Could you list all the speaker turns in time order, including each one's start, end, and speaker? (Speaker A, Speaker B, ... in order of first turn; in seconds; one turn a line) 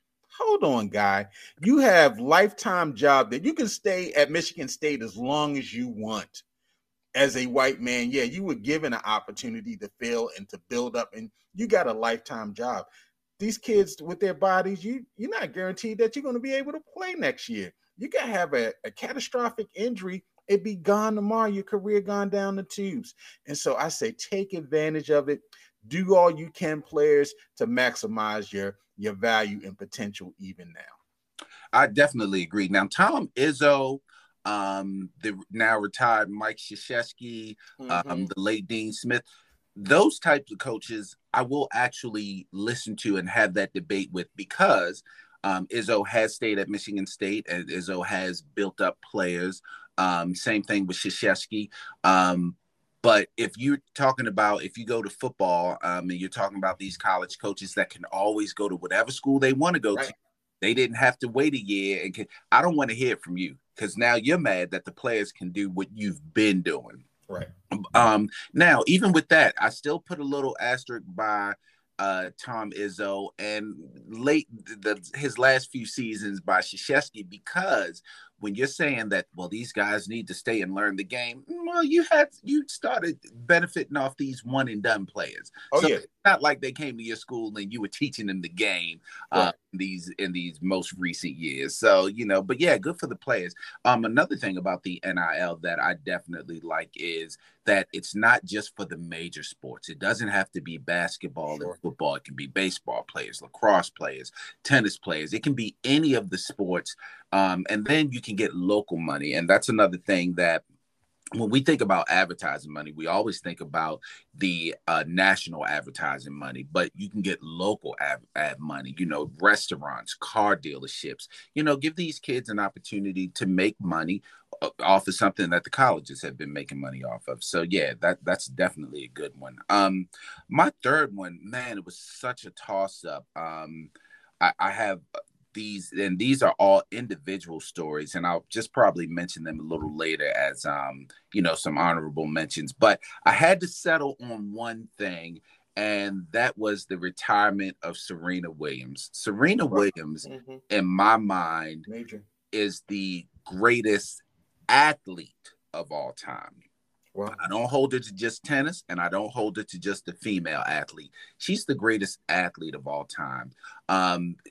Speaker A: 0.4-6.4
Speaker A: 7.1-12.9
Speaker A: 13.4-31.0
Speaker B: 31.7-39.2
Speaker A: 37.8-38.3
Speaker B: 39.8-67.0
Speaker B: 67.9-110.6
Speaker A: 85.7-86.0
Speaker A: 101.5-101.8
Speaker B: 111.3-151.9
Speaker A: 149.7-150.6
Speaker A: 151.9-152.2
Speaker B: 152.5-156.6
Speaker B: 157.3-164.4